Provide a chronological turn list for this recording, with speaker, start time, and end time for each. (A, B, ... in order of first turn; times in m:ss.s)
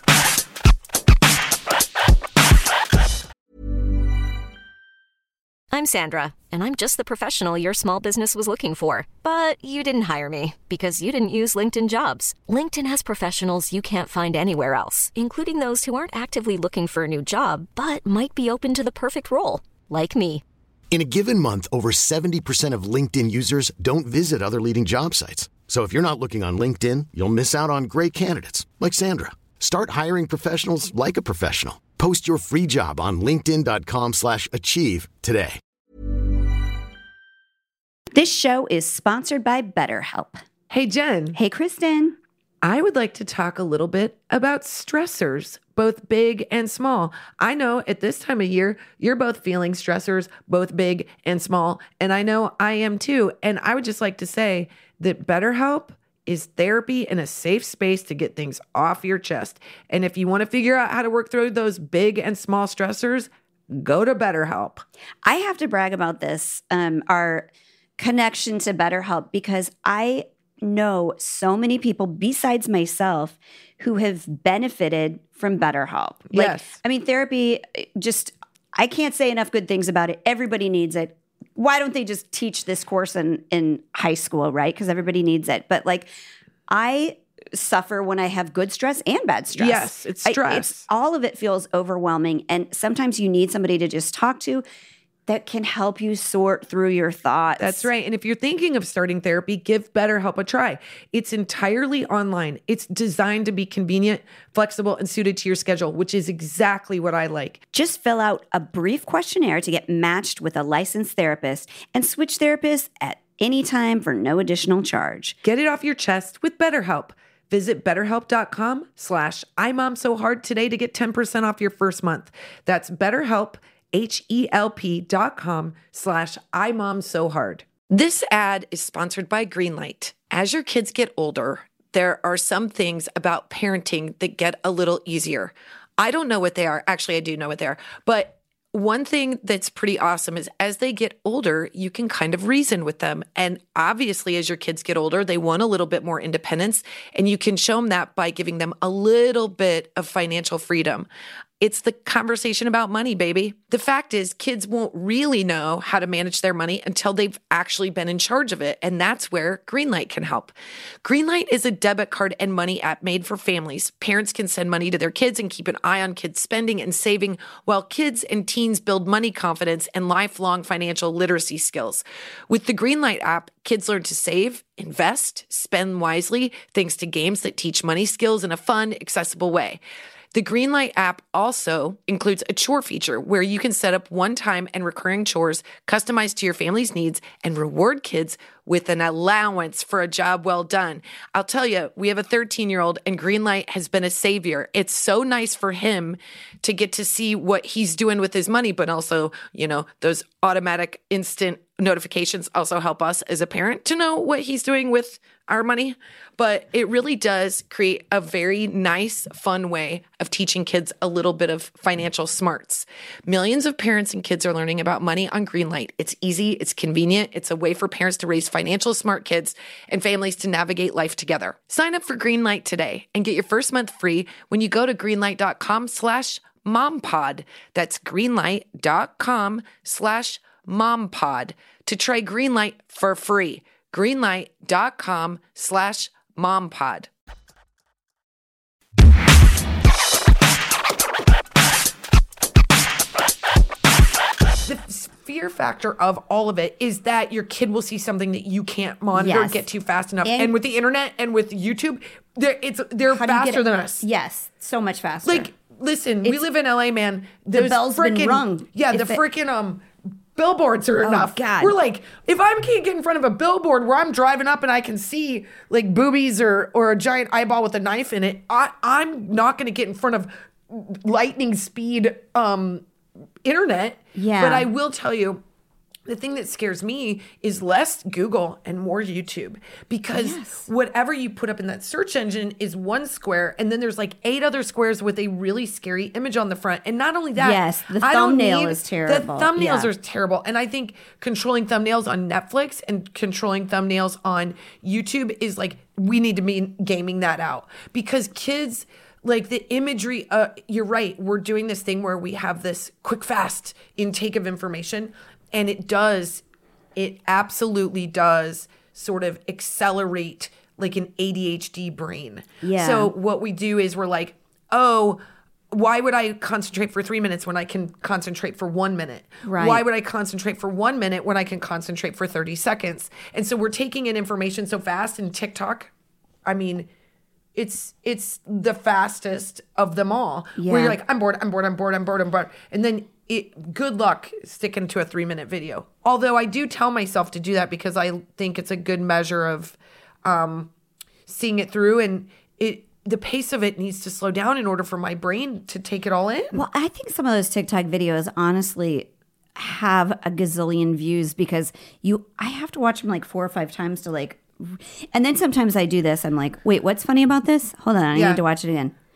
0:05.7-0:20.4 A
0:20.9-0:35.6 B
0:38.1-0:40.4 C
0:40.7-0:41.4 D
0:41.3-0:42.2 C
0:42.6-1:04.8 D
1:05.2-1:07.5 C
1:08.0-1:26.1 C
1:16.3-1:16.8 D
1:26.7-1:34.6 C
1:29.6-1:30.9 D
1:35.3-1:37.9 C
1:37.6-1:47.6 D
1:47.7-1:55.4 C
1:55.4-2:31.1 D
2:31.6-2:59.8 D
3:00.3-3:57.1 D
4:04.6-4:14.0 D
4:09.1-4:09.7 C
4:10.2-4:10.5 C
4:13.1-4:15.5 C
4:15.2-4:32.8 D
4:17.5-4:19.2 C
4:21.0-4:21.7 C
4:33.4-4:35.4 D
4:34.1-4:34.7 C
4:36.0-5:06.4 D
4:40.1-4:40.6 C
4:47.4-4:49.9 C
5:07.0-5:25.9 D
5:12.6-5:13.1 C
5:19.4-5:19.8 C
5:26.4-5:26.9 D
5:27.5-5:40.7 D
5:30.6-5:31.0 C
5:41.2-5:46.6 D
5:46.5-5:58.9 C
5:58.1-5:58.4 D